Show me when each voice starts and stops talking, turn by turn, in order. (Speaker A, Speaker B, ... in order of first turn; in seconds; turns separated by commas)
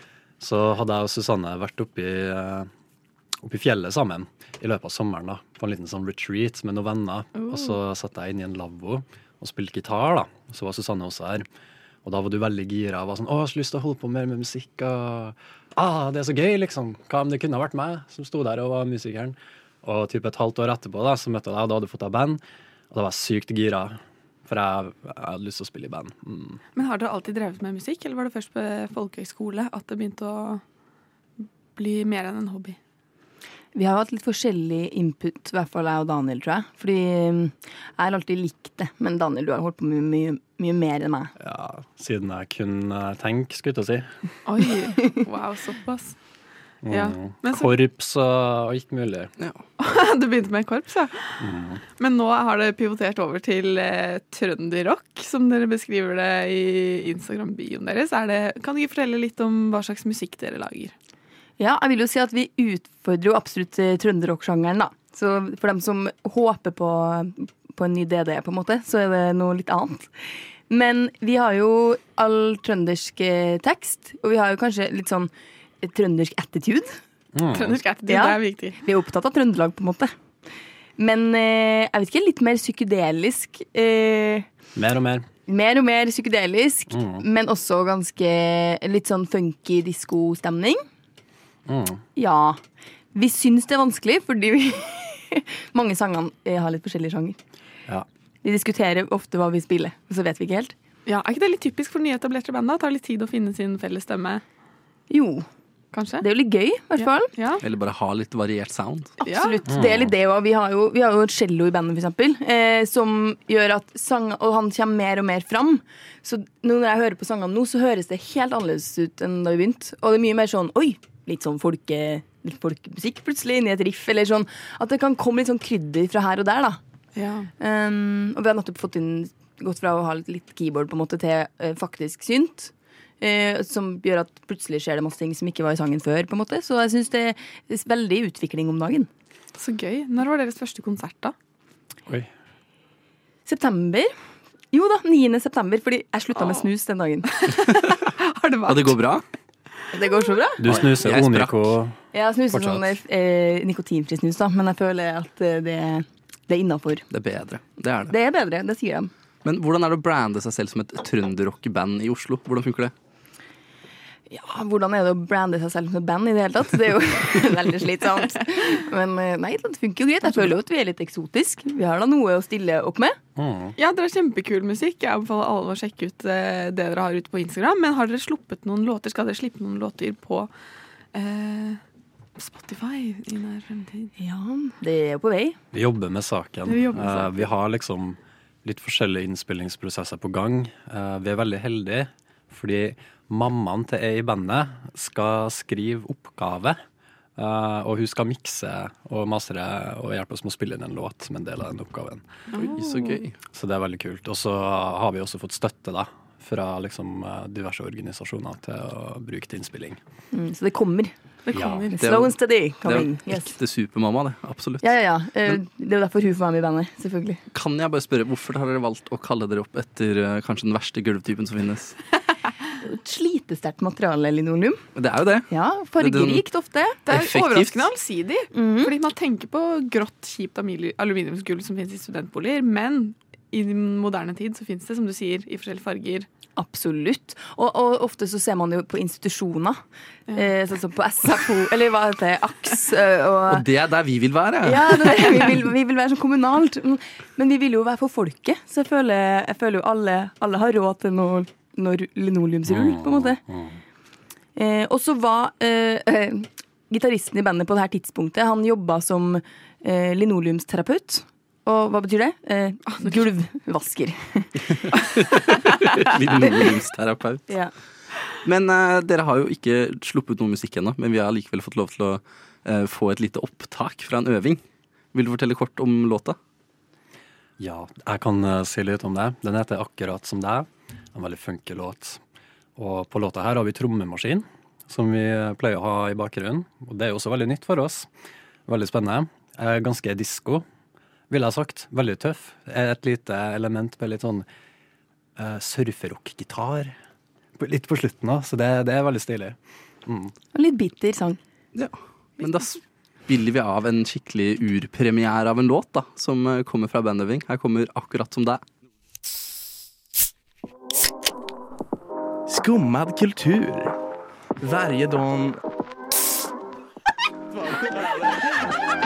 Speaker A: 0.4-2.7, Speaker A: 3.4-11.5, Speaker B: 7.4-7.8, Speaker A: 12.0-26.6, Speaker B: 26.8-30.6, Speaker B: 31.8-32.8, Speaker C: 33.8-41.3, Speaker A: 41.4-44.1, Speaker B: 44.5-46.1, Speaker A: 46.8-49.3, Speaker B: 46.9-47.7, Speaker B: 49.8-51.5, Speaker A: 51.4-51.8, Speaker B: 52.0-60.9, Speaker C: 61.6-70.1, Speaker C: 70.7-75.3, Speaker C: 75.8-77.0, Speaker A: 77.3-77.8, Speaker B: 77.5-78.8, Speaker C: 78.1-80.1, Speaker C: 81.0-84.5, Speaker A: 84.8-85.2, Speaker C: 85.5-90.8, Speaker A: 86.9-87.2, Speaker A: 91.7-92.0, Speaker C: 92.2-92.6, Speaker C: 93.1-97.4, Speaker C: 98.4-100.7, Speaker B: 101.1-104.4, Speaker C: 105.1-105.5, Speaker B: 105.9-106.2, Speaker C: 106.2-107.3, Speaker B: 107.3-107.6, Speaker D: 107.6-109.2, Speaker C: 109.2-126.8, Speaker B: 109.2-109.6, Speaker A: 109.7-110.1, Speaker B: 127.1-127.5, Speaker C: 127.6-139.1, Speaker B: 139.6-141.3, Speaker C: 143.5-144.1, Speaker C: 144.7-147.3, Speaker B: 147.3-149.0, Speaker D: 148.7-149.2, Speaker C: 149.9-150.7, Speaker A: 150.6-152.0, Speaker D: 150.7-151.8, Speaker C: 152.1-157.1, Speaker A: 152.5-152.9, Speaker D: 157.1-158.1, Speaker C: 158.1-159.1, Speaker D: 159.4-162.9, Speaker C: 164.3-173.2, Speaker A: 173.4-173.8, Speaker B: 173.8-180.5, Speaker B: 181.1-181.8, Speaker B: 182.4-184.1, Speaker C: 184.2-185.6, Speaker A: 185.7-196.8, Speaker B: 186.7-187.5, Speaker A: 197.4-202.2, Speaker B: 202.5-203.2, Speaker D: 202.6-203.3, Speaker A: 203.5-210.0, Speaker C: 210.3-211.1, Speaker B: 211.5-212.0, Speaker A: 211.5-211.9, Speaker C: 211.9-213.5, Speaker D: 212.0-214.9, Speaker C: 214.8-217.4, Speaker D: 217.5-222.0, Speaker C: 222.8-224.8, Speaker D: 225.0-225.5, Speaker C: 225.5-227.0, Speaker D: 226.0-226.4, Speaker B: 227.1-236.3, Speaker D: 227.1-227.9, Speaker C: 228.5-228.9, Speaker C: 236.6-239.8, Speaker C: 240.3-243.6, Speaker D: 243.5-245.2, Speaker C: 244.6-253.4, Speaker A: 252.7-253.8, Speaker C: 254.6-264.7, Speaker D: 264.9-267.5, Speaker D: 268.4-274.6, Speaker D: 275.1-276.4, Speaker A: 277.6-282.2, Speaker A: 282.8-288.1, Speaker A: 288.7-290.6, Speaker A: 291.3-294.5, Speaker A: 295.4-296.9, Speaker A: 297.6-300.3, Speaker C: 300.5-301.4, Speaker D: 301.8-308.6, Speaker E: 312.5-313.9, Speaker E: 314.6-315.6